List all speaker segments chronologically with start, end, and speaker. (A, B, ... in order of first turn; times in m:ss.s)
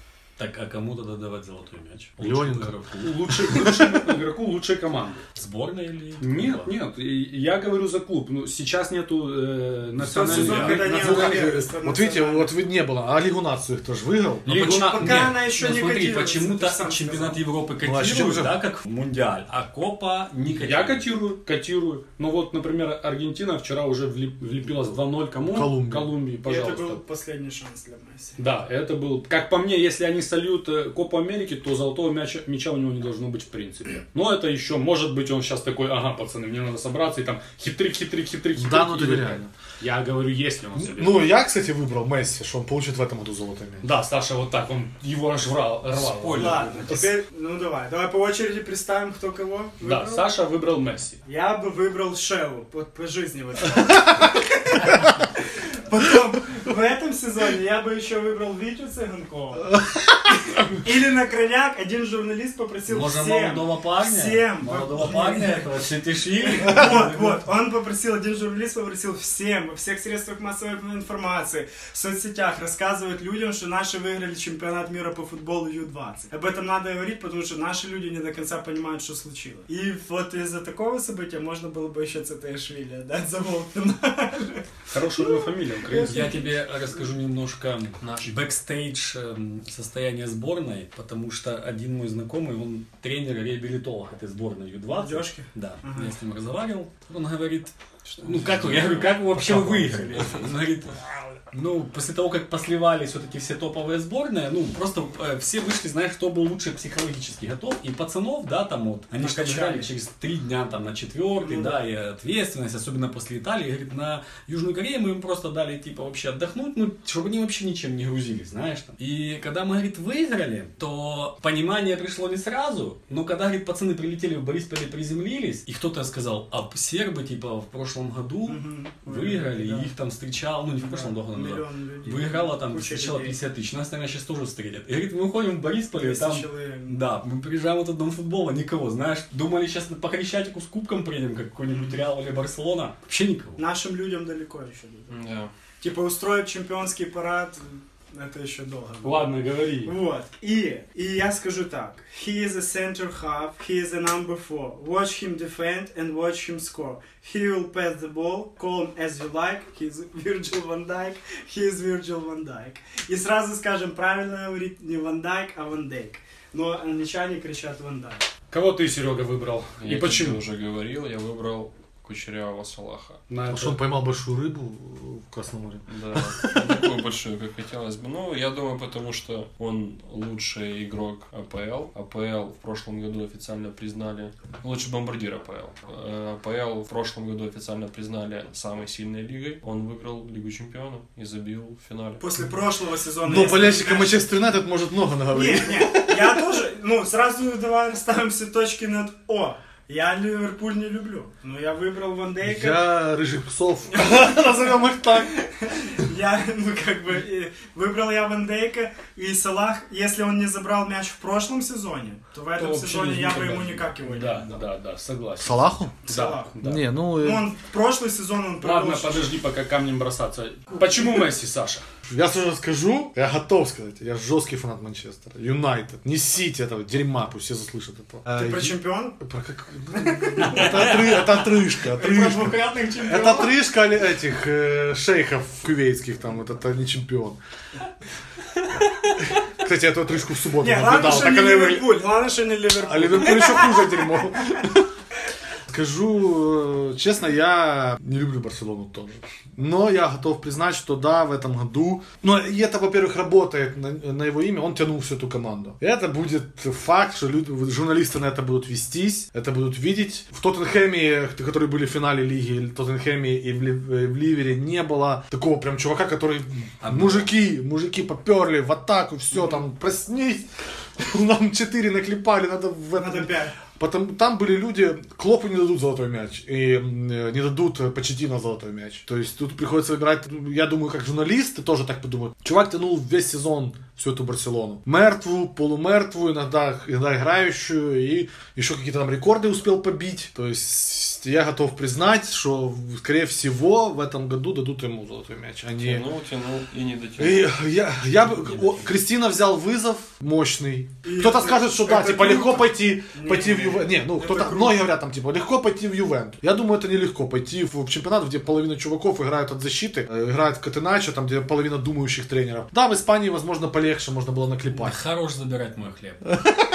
0:00.4-0:03.4 A
0:02.2-0:02.7 B
0:03.0-0:05.2 C
0:03.5-0:03.9 B
0:05.4-0:06.7 A
0:06.2-0:11.6 C
0:10.1-0:10.9 A
0:10.1-0:12.5 D
0:10.3-0:14.5 B
0:14.4-0:15.3 C
0:14.5-0:21.0 A
0:14.6-0:17.4 D
0:17.8-0:18.6 B
0:20.6-0:27.0 C
0:25.5-0:26.1 B
0:26.4-0:28.4 D
0:28.4-0:41.3 C
0:38.5-0:39.5 B
0:40.7-0:43.8 B
0:43.8-0:47.0 C
0:46.0-0:46.8 E
0:46.2-0:46.9 A
0:46.3-0:50.3 D
0:49.8-0:51.2 C
0:51.2-0:59.8 D
1:00.6-1:05.7 D
1:02.9-1:07.4 A
1:06.3-1:24.6 D
1:24.9-1:26.4 C
1:25.9-1:27.0 D
1:25.9-2:23.6 A
1:28.0-1:28.3 E
1:34.9-1:36.1 D
1:38.1-1:40.4 E
1:39.4-1:40.3 B
1:49.2-1:49.9 D
1:51.4-1:51.8 D
2:08.4-2:09.9 D
2:10.8-2:13.4 D
2:15.9-2:17.0 D
2:21.7-2:22.0 D
2:23.6-2:25.1 D
2:25.1-2:25.5 E
2:25.8-2:48.2 D
2:29.0-2:29.9 C
2:48.5-2:50.4 C
2:49.8-2:53.2 E
2:53.3-2:53.8 C
2:53.5-2:56.9 B
2:55.9-3:12.2 E
3:12.2-3:14.2 D
3:13.2-3:16.4 B
3:15.3-3:22.8 D
3:22.4-3:25.4 B
3:24.0-3:24.6 D
3:25.4-3:34.6 D
3:32.6-3:36.8 C
3:35.4-3:36.0 B
3:36.1-3:36.5 D
3:36.6-3:37.4 B
3:37.2-3:39.2 D
3:38.6-3:41.8 C
3:40.8-3:41.0 D
3:42.1-3:57.4 B
3:48.3-3:49.2 D
3:49.9-3:51.1 D
3:50.6-3:53.5 A
3:59.2-4:01.9 B
4:00.6-4:04.2 D
4:02.8-4:04.9 B
4:05.7-4:56.0 B
4:26.8-4:27.3 A
4:33.0-4:33.6 D
4:55.8-4:57.5 E
4:57.2-5:15.0 B
4:58.1-4:58.8 A
5:01.0-5:04.9 D
5:14.7-5:16.3 A